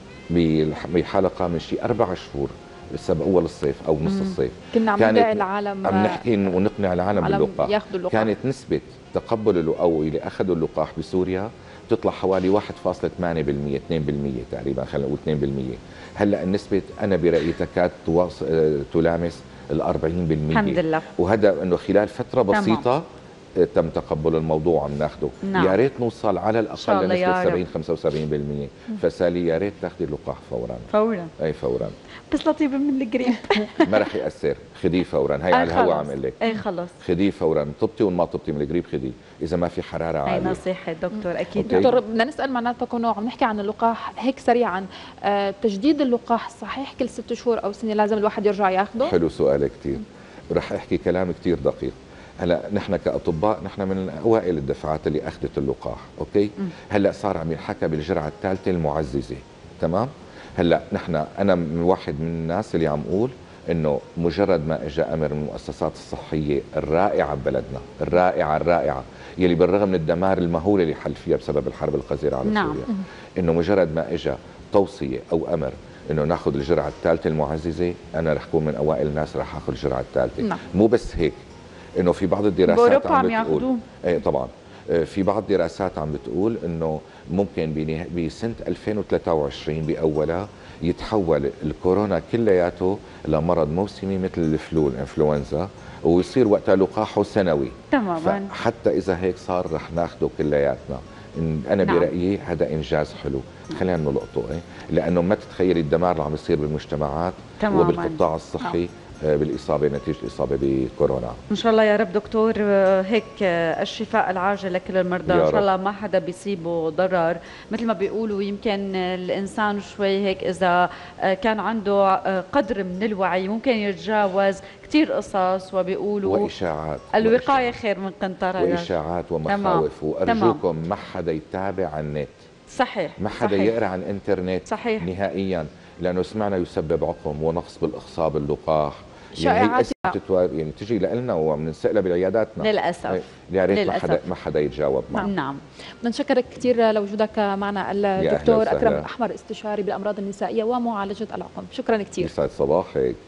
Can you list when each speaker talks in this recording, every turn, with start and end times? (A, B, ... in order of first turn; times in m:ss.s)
0:00.3-0:23.0 A
0:04.1-0:04.4 B
0:04.7-0:06.2 C
0:07.2-0:08.3 C
0:20.5-0:21.1 B
0:22.5-0:22.8 B
0:23.6-0:32.0 A
0:25.4-0:25.8 B
0:26.8-0:27.6 B
0:30.9-0:31.3 B
0:32.3-0:34.1 B
0:33.8-0:36.4 A
0:35.5-0:37.0 B
0:37.0-0:40.6 A
0:40.3-0:42.0 B
0:41.6-0:41.9 A
0:41.6-0:49.1 C
0:49.0-1:21.4 A
1:12.4-1:12.8 B
1:22.0-1:51.4 A
1:22.7-1:23.8 B
1:37.9-1:38.5 B
1:41.8-1:42.1 B
1:47.6-1:48.2 B
1:51.5-2:06.5 B
1:55.3-1:55.7 A
2:06.2-2:07.8 A
2:07.1-2:08.9 B
2:08.6-2:12.4 A
2:09.5-2:10.6 B
2:12.7-2:13.8 B
2:13.2-2:25.3 A
2:14.7-2:15.1 B
2:19.4-2:20.2 C
2:22.6-2:24.2 B
2:25.2-2:25.6 B
2:26.0-2:32.3 C
2:28.2-2:29.1 A
2:32.2-2:33.2 A